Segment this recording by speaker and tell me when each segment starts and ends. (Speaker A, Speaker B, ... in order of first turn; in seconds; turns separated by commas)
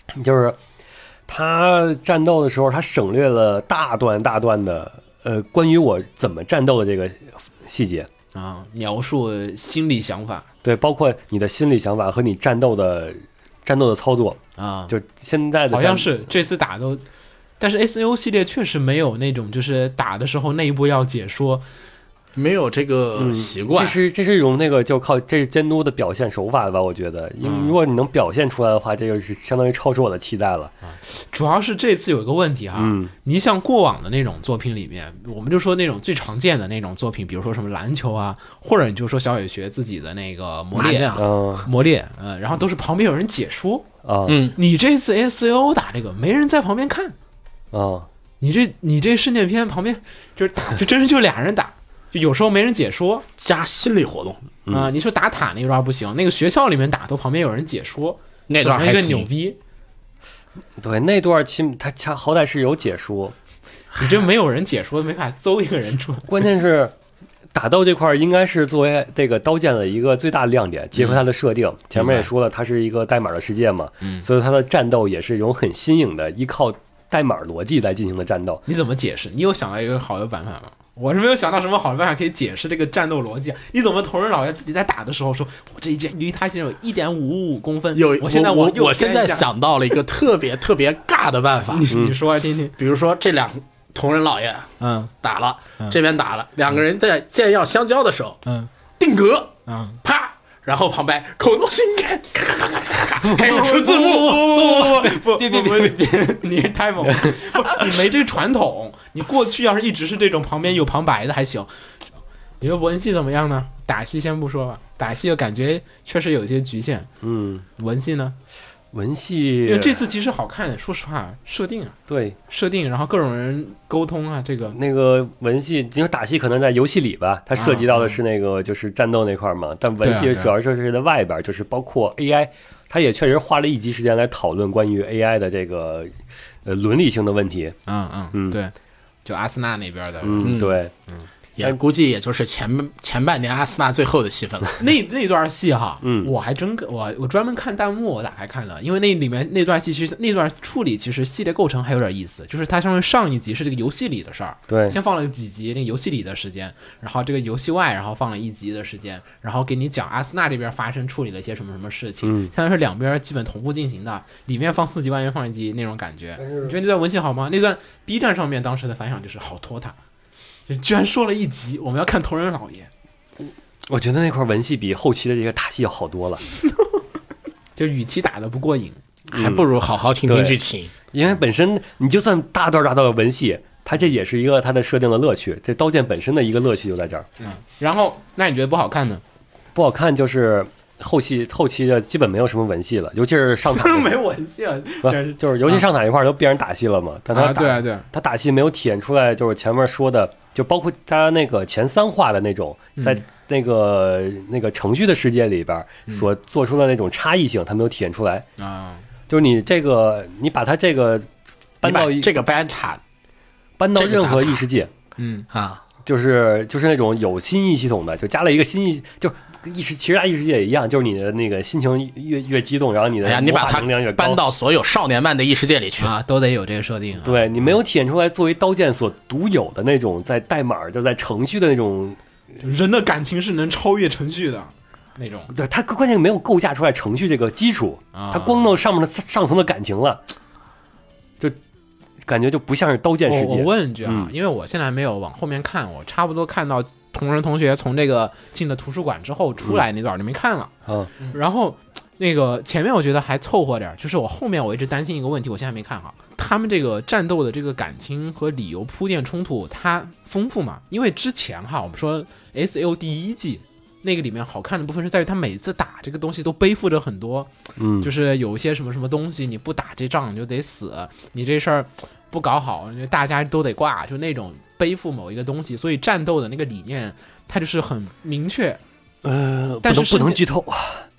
Speaker A: 0.1-0.6, Speaker A: 1.3-8.1, Speaker B: 8.3-10.5, Speaker A: 10.6-16.1, Speaker B: 14.6-14.9, Speaker B: 15.7-17.0, Speaker B: 17.6-21.6, Speaker C: 22.3-24.0, Speaker A: 23.1-30.7, Speaker B: 27.4-27.8, Speaker B: 30.8-43.8, Speaker A: 32.8-33.1, Speaker C: 40.7-41.3, Speaker A: 41.1-41.7, Speaker A: 44.0-44.4, Speaker C: 44.3-44.6, Speaker B: 44.5-47.1, Speaker A: 47.7-48.1, Speaker B: 48.4-53.2, Speaker C: 53.4-54.4, Speaker A: 54.6-54.9, Speaker B: 54.7-59.6, Speaker C: 58.5-59.3, Speaker A: 60.8-63.3, Speaker B: 64.0-66.3, Speaker A: 66.2-66.9, Speaker A: 67.5-78.6, Speaker B: 71.0-71.2, Speaker B: 71.9-72.3, Speaker B: 78.7-89.5, Speaker C: 87.9-91.9, Speaker B: 91.7-92.7, Speaker C: 92.8-98.4, Speaker B: 94.8-95.1, Speaker C: 99.0-104.6, Speaker B: 99.7-100.0, Speaker B: 103.2-111.7, Speaker A: 103.3-106.0, Speaker A: 107.1-107.4, Speaker B: 112.6-117.1, Speaker A: 117.2-117.6, Speaker B: 117.8-118.3, Speaker A: 118.9-120.0, Speaker B: 119.6-122.0, Speaker A: 122.1-122.4, Speaker B: 122.5-124.8, Speaker A: 124.7-136.1, Speaker B: 127.5-128.2, Speaker B: 130.0-130.5, Speaker A: 136.6-137.7, Speaker B: 137.8-138.7, Speaker A: 138.3-138.6, Speaker B: 139.2-141.3, Speaker A: 140.2-140.9, Speaker C: 140.4-140.8, Speaker C: 141.6-144.8, Speaker B: 144.8-169.9, Speaker A: 146.0-146.3, Speaker A: 154.7-155.0, Speaker A: 162.2-162.5, Speaker A: 166.4-166.8, Speaker B: 170.7-172.9, Speaker A: 173.9-176.4, Speaker B: 177.8-179.0, Speaker C: 179.3-180.9, Speaker A: 179.3-179.7, Speaker A: 180.2-180.6, Speaker A: 181.1-187.3, Speaker B: 187.4-189.2, Speaker A: 189.7-194.2, Speaker B: 193.7-195.9, Speaker A: 195.0-208.4, Speaker B: 197.3-198.1, Speaker B: 203.0-203.2, Speaker B: 208.6-209.0, Speaker A: 209.3-211.3, Speaker A: 211.8-212.3, Speaker C: 211.8-213.0, Speaker A: 213.8-214.9, Speaker C: 213.9-214.6, Speaker B: 215.2-215.4, Speaker C: 215.5-215.8, Speaker A: 216.1-224.4, Speaker C: 223.2-226.1, Speaker B: 226.0-227.7, Speaker A: 227.2-232.2, Speaker B: 232.6-235.5, Speaker A: 235.5-240.2, Speaker B: 238.1-238.7, Speaker A: 242.2-244.3, Speaker B: 243.2-278.8, Speaker A: 267.8-268.1, Speaker A: 279.2-281.1, Speaker B: 279.8-280.4